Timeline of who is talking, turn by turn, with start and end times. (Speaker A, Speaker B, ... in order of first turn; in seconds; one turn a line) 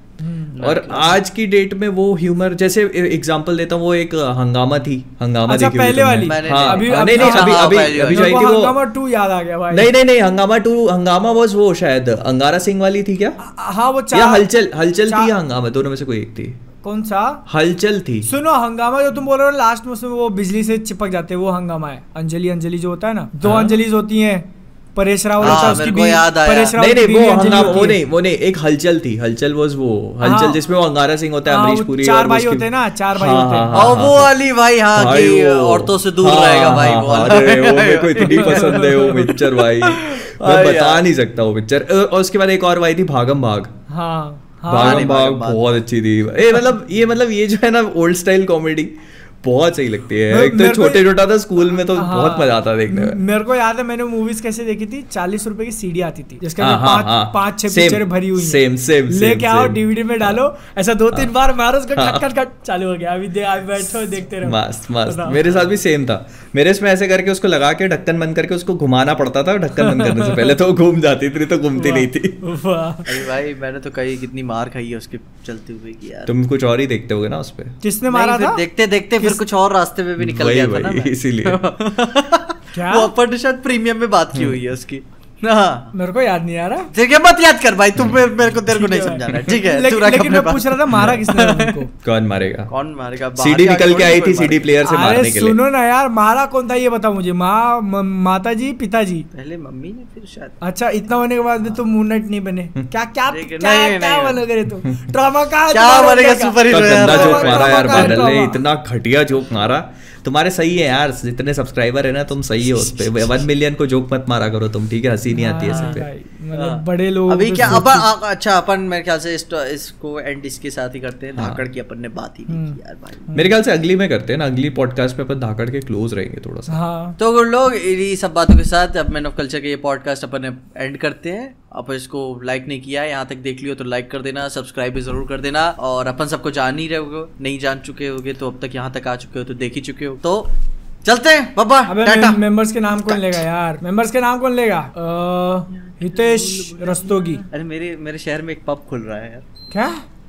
Speaker A: 0.2-0.6
Speaker B: 0.5-1.2
Speaker C: 0.6-8.8
Speaker A: 5.5-9.9
Speaker B: 6.2-8.4
Speaker C: 9.7-13.4
Speaker A: 13.4-14.4
Speaker C: 14.1-16.6
Speaker A: 16.8-17.4
Speaker C: 17.5-18.3
Speaker A: 18.2-28.0
Speaker C: 23.4-23.8
Speaker C: 25.4-25.9
Speaker B: 25.4-26.7
Speaker C: 26.7-34.3
Speaker A: 30.2-30.6
Speaker A: 31.5-33.9
Speaker B: 33.7-41.0
Speaker C: 34.9-43.7
Speaker A: 38.2-39.3
Speaker A: 43.9-45.1
Speaker C: 44.7-53.2
Speaker B: 44.7-45.6
Speaker A: 50.3-51.0
Speaker A: 52.0-65.4
Speaker C: 56.6-60.4
Speaker C: 62.0-62.2
Speaker C: 64.4-72.4
Speaker B: 65.4-65.7
Speaker A: 69.8-70.5
Speaker A: 71.7-73.3
Speaker B: 73.0-76.3
Speaker C: 76.3-77.8
Speaker A: 77.8-78.6
Speaker B: 78.1-85.9
Speaker C: 80.2-81.6
Speaker A: 82.7-83.1
Speaker C: 84.3-84.6
Speaker A: 85.9-86.9
Speaker B: 86.9-91.8
Speaker A: 88.7-91.9
Speaker C: 90.9-91.2
Speaker C: 92.0-92.7
Speaker B: 92.7-94.7
Speaker C: 93.3-95.6
Speaker A: 94.8-99.3
Speaker B: 99.3-100.6
Speaker A: 100.6-108.6
Speaker B: 103.3-104.4
Speaker B: 105.7-108.4
Speaker C: 106.7-116.0
Speaker A: 115.3-118.0
Speaker B: 115.7-116.0
Speaker B: 116.5-123.3
Speaker A: 122.5-122.8
Speaker C: 123.3-126.8
Speaker A: 126.7-127.2
Speaker B: 127.2-140.5
Speaker B: 141.0-142.4
Speaker A: 141.9-147.4
Speaker B: 143.1-143.3
Speaker B: 145.7-149.4
Speaker A: 149.7-150.0